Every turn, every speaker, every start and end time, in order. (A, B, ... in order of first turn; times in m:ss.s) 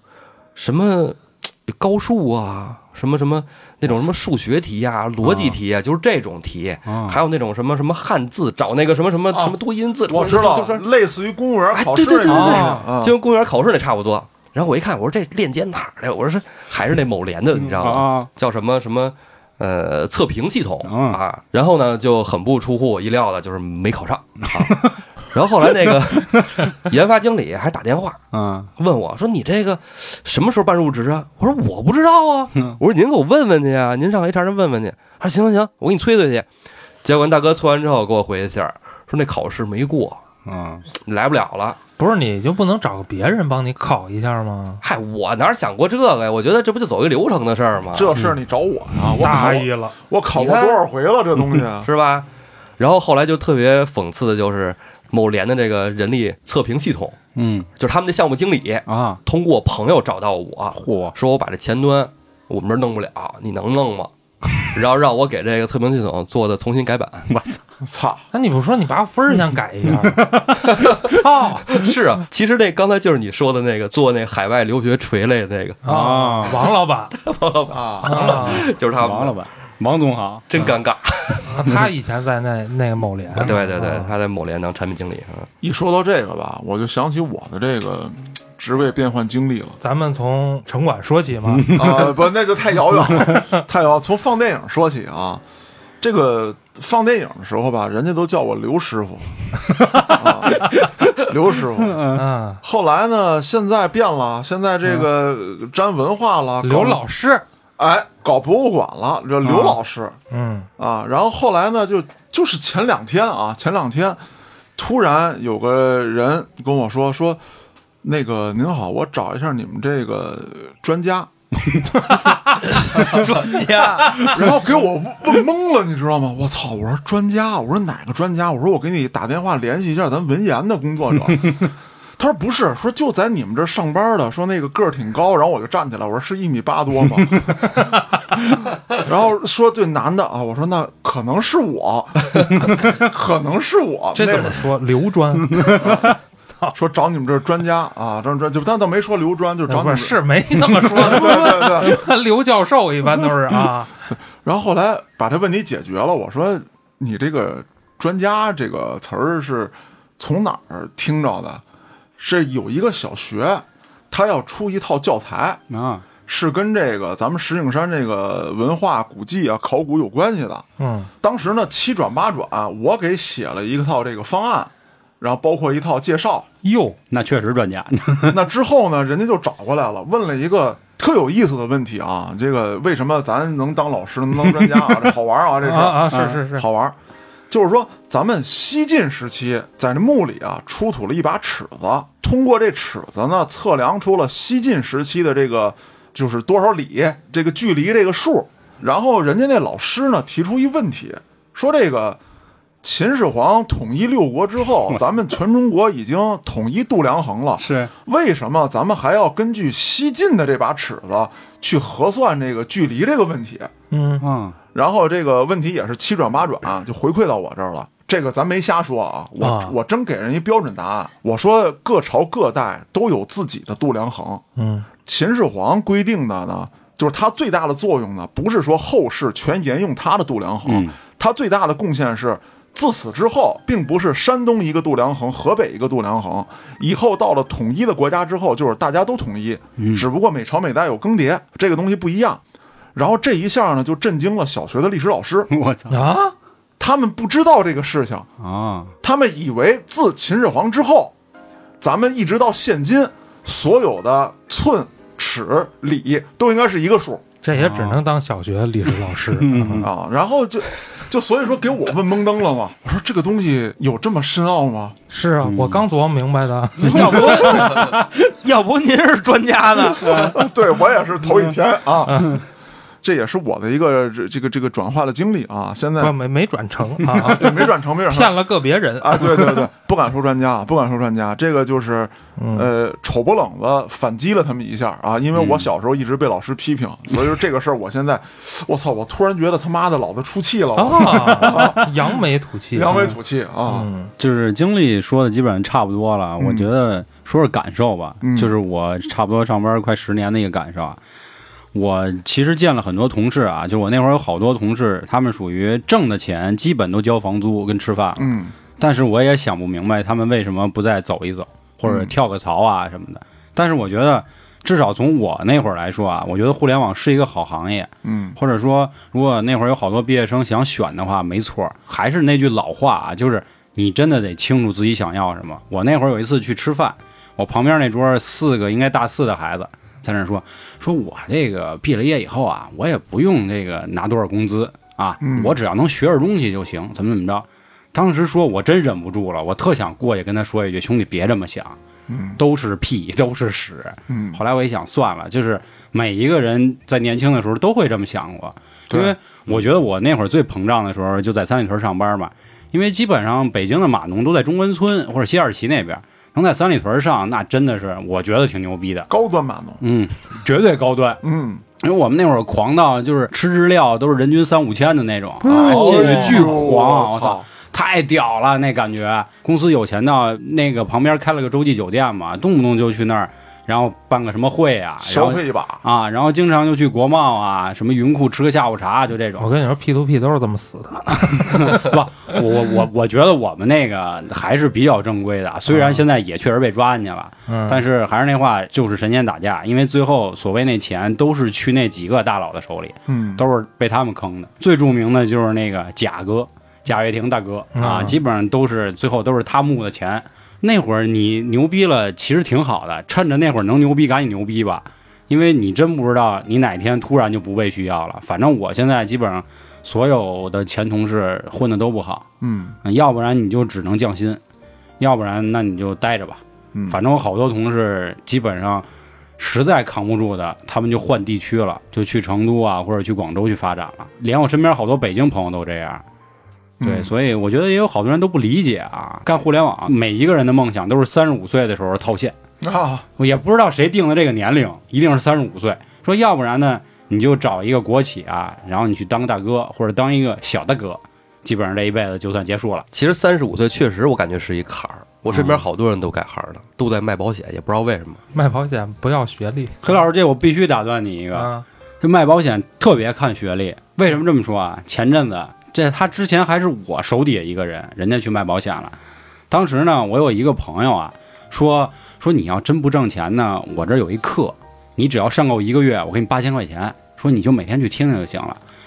0:00.6-0:10.8 A
0:05.2-0:05.6 B
0:06.9-0:07.2 B
0:10.1-0:13.1 C
0:11.7-0:28.2 A
0:12.2-0:12.8 B
0:17.5-0:18.3 B
0:20.8-0:21.2 B
0:24.5-0:24.9 B
0:28.3-0:28.7 B
0:28.8-0:36.4 A
0:37.0-0:40.2 A
0:40.4-0:40.8 B
0:40.9-0:41.8 A
0:42.0-0:44.8 D
0:44.8-0:48.1 A
0:47.9-0:51.9 C
0:49.2-0:50.0 D
0:50.3-0:50.8 A
0:51.8-0:52.3 A
0:52.8-0:57.2 A
0:57.3-0:57.7 B
0:57.8-1:07.3 A
0:58.9-0:59.2 B
1:00.8-1:01.1 B
1:07.3-1:07.6 B
1:07.8-1:08.2 C
1:08.3-1:10.2 D
1:10.0-1:10.6 B
1:10.7-1:15.8 A
1:11.1-1:11.6 D
1:11.2-1:11.6 B
1:15.8-1:17.1 D
1:15.8-1:16.7 B
1:17.1-1:19.4 A
1:17.7-1:18.5 C
1:18.0-1:18.7 D
1:18.2-1:20.7 B
1:20.5-1:21.5 A
1:21.5-1:23.9 D
1:23.3-1:25.5 A
1:25.6-1:29.8 C
1:29.8-1:31.8 D
1:31.5-1:32.1 B
1:31.7-1:35.4 C
1:36.0-1:39.3 C
1:40.0-1:42.1 C
1:41.8-1:42.2 B
1:42.1-1:42.6 D
1:42.6-1:47.0 C
1:46.6-1:47.4 D
1:47.8-1:50.2 C
1:49.4-1:49.8 B
1:50.3-1:50.7 D
1:50.8-1:54.2 C
1:54.8-1:57.4 C
1:58.0-2:01.3 C
2:02.0-2:02.4 D
2:02.6-2:04.4 E
2:04.0-2:04.3 D
2:04.2-2:17.7 C
2:18.9-2:24.7 C
2:24.1-2:26.7 D
2:25.8-2:26.1 C
2:26.7-2:30.2 C
2:29.7-2:34.0 D
2:30.8-2:32.0 C
2:34.1-2:41.6 C
2:42.2-2:45.6 C
2:45.7-2:46.0 B
2:46.3-2:50.6 C
2:50.8-2:51.1 D
2:51.2-2:56.5 C
2:56.6-2:57.0 D
2:57.1-2:58.4 B
2:58.3-3:06.9 C
3:05.6-3:06.6 D
3:06.1-3:06.4 B
3:07.5-3:22.2 C
3:22.8-3:33.7 C
3:27.6-3:27.9 B
3:33.9-3:34.2 D
3:34.2-3:34.6 B
3:34.7-3:44.4 C
3:39.4-3:39.8 D
3:44.6-3:44.9 D
3:45.0-4:02.4 C
3:50.6-3:50.9 B
3:59.8-4:00.1 B
4:02.9-4:05.5 C
4:05.5-4:06.0 B
4:05.9-4:06.3 D
4:06.8-4:08.3 C
4:08.4-4:08.9 B
4:09.0-4:11.1 C
4:11.8-4:17.2 C
4:17.4-4:19.9 D
4:17.5-4:18.0 B
4:19.3-4:19.9 B
4:19.8-4:25.0 C
4:25.1-4:27.9 D
4:25.4-4:25.8 B
4:26.9-4:27.6 C
4:26.9-4:30.4 E
4:30.1-4:32.4 C
4:33.0-4:36.1 C
4:36.0-4:39.7 D
4:37.1-4:38.4 C
4:39.0-4:52.1 C
4:42.4-4:42.7 D
4:45.3-4:45.7 B
4:50.8-4:53.0 D
4:52.7-4:53.9 C
4:53.7-4:54.1 D
4:54.2-5:01.0 B
4:56.4-4:56.7 C
4:58.2-4:58.5 C
5:01.7-5:41.8 B
5:08.2-5:08.5 C
5:11.8-5:12.1 C
5:18.0-5:18.4 C
5:35.2-5:35.5 C
5:42.1-5:42.4 C
5:42.4-5:59.1 B
5:44.1-5:44.4 C
5:48.9-5:49.1 C
5:59.1-5:59.8 C
5:59.8-6:01.2 B
6:01.2-6:01.6 C
6:01.8-6:19.5 B
6:05.4-6:06.6 D
6:05.5-6:07.5 C
6:15.0-6:15.8 C
6:19.4-6:21.9 D
6:21.1-6:52.2 B
6:25.7-6:26.0 C
6:27.5-6:27.8 D
6:33.1-6:33.4 C
6:37.7-6:38.2 D
6:52.4-6:52.8 C
6:52.8-6:54.4 B
6:55.0-6:58.8 B
6:56.7-6:57.0 C
6:59.4-7:06.0 B
7:06.8-7:07.1 C
7:06.8-7:12.4 B
7:12.6-7:13.0 C
7:13.2-7:22.8 B
7:22.9-7:28.2 A
7:25.3-7:25.6 B
7:28.3-7:29.8 D
7:29.8-7:39.0 B
7:31.3-7:31.6 D
7:39.5-7:48.6 B